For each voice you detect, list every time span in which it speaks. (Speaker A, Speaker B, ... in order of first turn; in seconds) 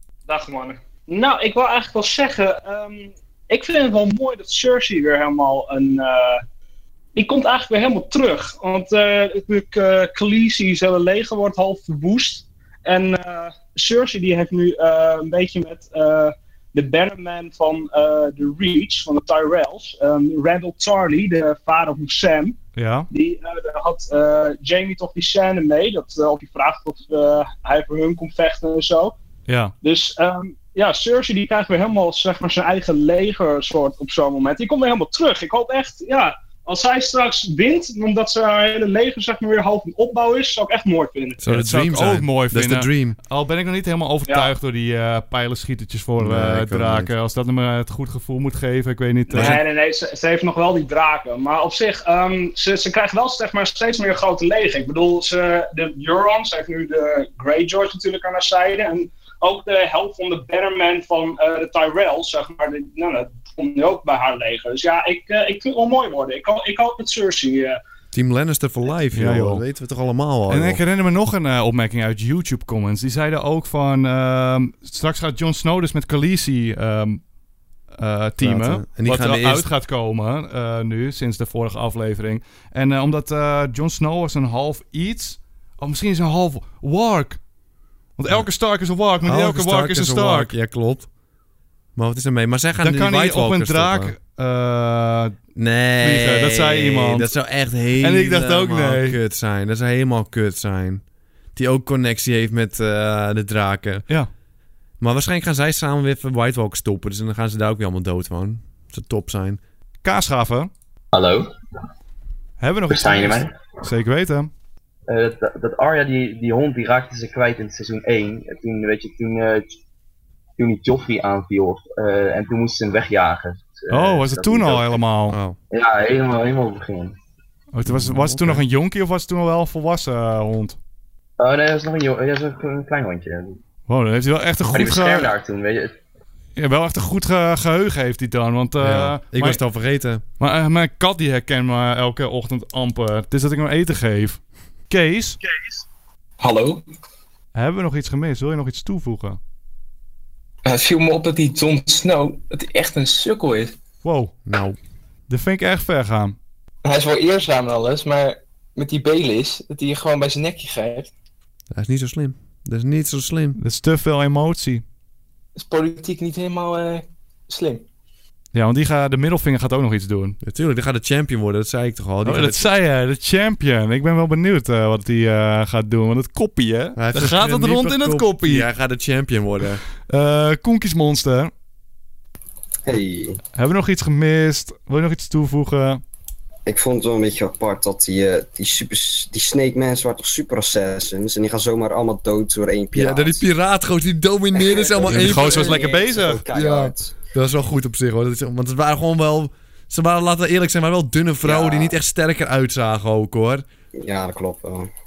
Speaker A: 0.3-6.4, 7.2-22.6, 23.1-29.2, 29.8-41.4, 44.3-44.5, 49.3-67.8
Speaker B: 22.8-23.1, 29.5-29.7, 41.5-49.6, 69.1-69.6, 70.5-77.2, 77.9-87.4, 88.2-90.5, 92.8-95.4, 96.0-97.3, 98.0-99.2, 110.0-110.7, 112.6-114.5, 123.9-125.4, 127.7-130.8, 133.9-135.3, 136.6-139.6, 140.4-145.4, 147.5-149.4, 154.0-154.3, 155.3-156.4, 163.6-164.8, 168.5-170.4, 172.2-178.7, 180.1-181.5, 183.6-186.0, 195.1-196.4
Speaker C: 41.4-43.2, 46.2-47.1, 49.3-49.6, 68.1-70.8, 78.4-79.7, 89.2-91.1, 92.0-94.2, 95.5-101.0, 101.5-104.1, 105.0-109.6, 125.3-125.6, 127.8-128.6, 138.8-140.2, 154.4-154.8, 161.7-163.6, 170.4-172.6, 177.0-179.8, 192.9-195.8, 196.5-203.7
Speaker D: 111.1-111.5, 112.9-113.5, 115.1-119.7, 120.6-125.0, 125.7-127.2, 131.4-133.6, 134.7-136.0
Speaker E: 146.4-146.8, 150.7-153.7, 156.8-161.1, 165.6-167.8
Speaker F: 182.9-183.4, 186.7-193.4, 194.6-197.1, 201.4-202.0, 204.0-204.9